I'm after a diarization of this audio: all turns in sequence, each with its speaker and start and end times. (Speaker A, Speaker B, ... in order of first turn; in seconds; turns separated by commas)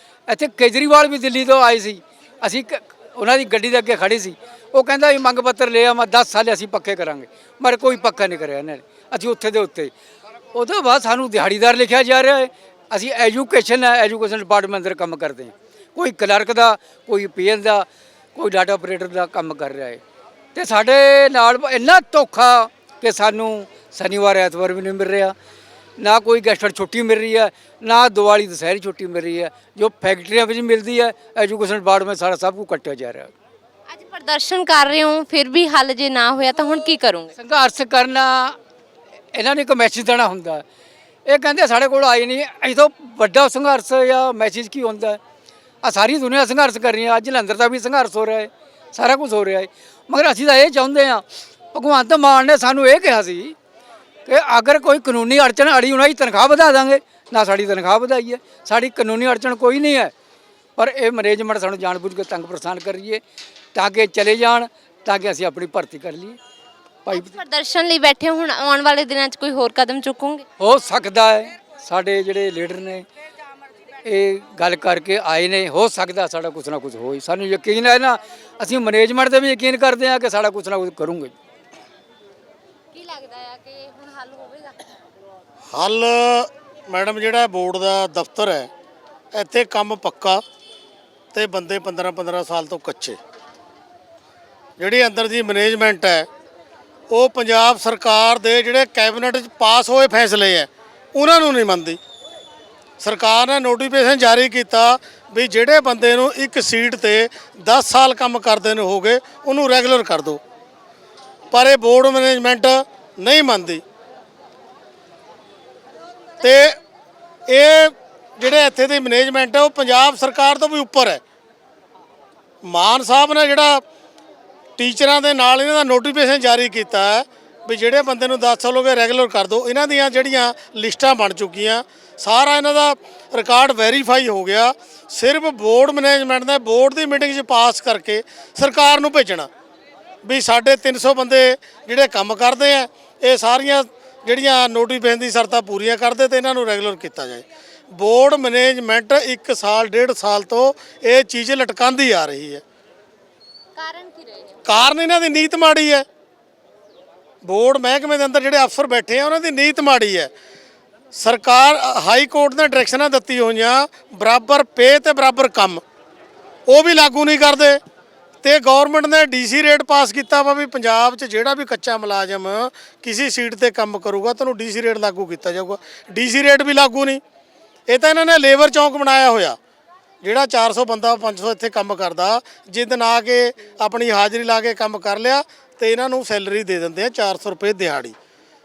Speaker A: 0.3-9.9, Speaker A: 10.5-20.0, Speaker A: 20.5-25.3, Speaker A: 26.0-33.3, Speaker B: 33.9-37.3, Speaker A: 37.4-38.6, Speaker A: 39.3-40.6, Speaker A: 41.3-45.2, Speaker A: 45.8-53.5, Speaker A: 54.2-60.1, Speaker A: 60.8-63.2, Speaker A: 63.7-66.4, Speaker A: 67.0-67.3, Speaker B: 67.1-70.4, Speaker A: 70.6-73.0, Speaker A: 74.0-81.3, Speaker B: 82.9-84.8, Speaker C: 85.7-88.7, Speaker C: 89.3-90.4, Speaker C: 91.3-93.2, Speaker C: 94.8-96.3, Speaker C: 97.1-102.0, Speaker C: 103.0-110.4, Speaker C: 111.5-113.8, Speaker C: 116.4-116.8, Speaker C: 117.5-121.2, Speaker C: 122.6-123.8, Speaker C: 124.8-139.5, Speaker C: 140.2-152.6, Speaker B: 153.8-154.7, Speaker C: 154.6-156.0, Speaker C: 157.4-160.3, Speaker C: 161.1-165.8, Speaker C: 166.7-167.8, Speaker C: 168.4-177.2, Speaker C: 177.9-179.6, Speaker C: 180.2-188.1